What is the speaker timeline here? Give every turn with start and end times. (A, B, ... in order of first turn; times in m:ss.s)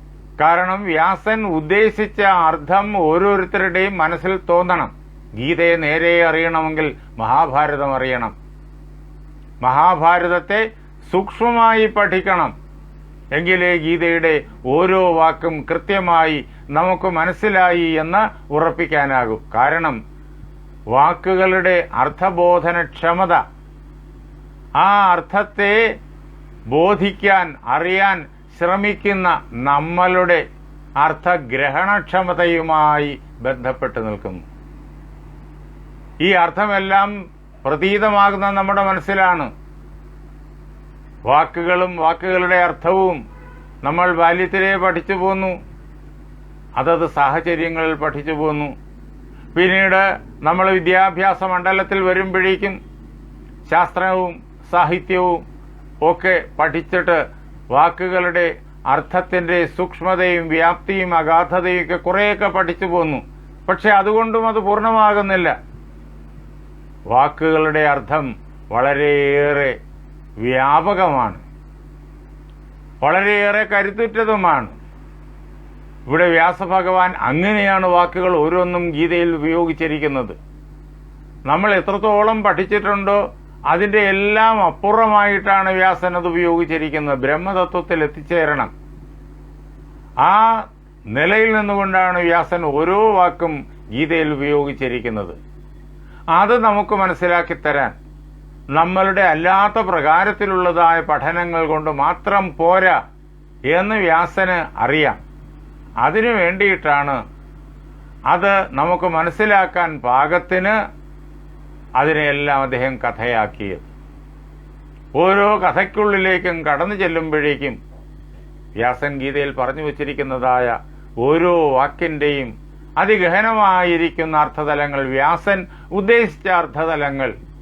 0:00.4-0:08.4 A
0:09.6-0:12.5 A
0:13.4-0:20.0 A
0:20.9-0:23.4 A
0:24.8-0:25.8 A
0:26.7-0:30.4 A
0:31.0-0:34.5 A
0:36.2-0:37.1 A
0:37.6-0:39.5 A
0:41.3-0:43.2 A
0:43.8-0:45.6 A
0:46.8-0:48.7 A
0:49.5-0:52.8 A
0:53.7-0:55.4 A
0:56.0-0:57.2 A
0:57.7-1:05.5 A
1:07.1-1:09.8 A
1:10.4-1:11.4 A
1:13.0-1:14.8 A
1:16.1-1:20.4 A
1:21.5-1:23.2 A
1:23.7-1:28.7 A
1:30.2-1:30.5 A
1:31.1-1:35.4 A
1:36.4-1:38.0 A
1:38.8-1:43.0 A
1:43.7-1:45.2 A
1:46.0-1:47.2 A
1:48.3-1:50.8 A
1:52.0-1:53.9 A
1:55.2-1:57.8 A
1:58.8-2:07.3 A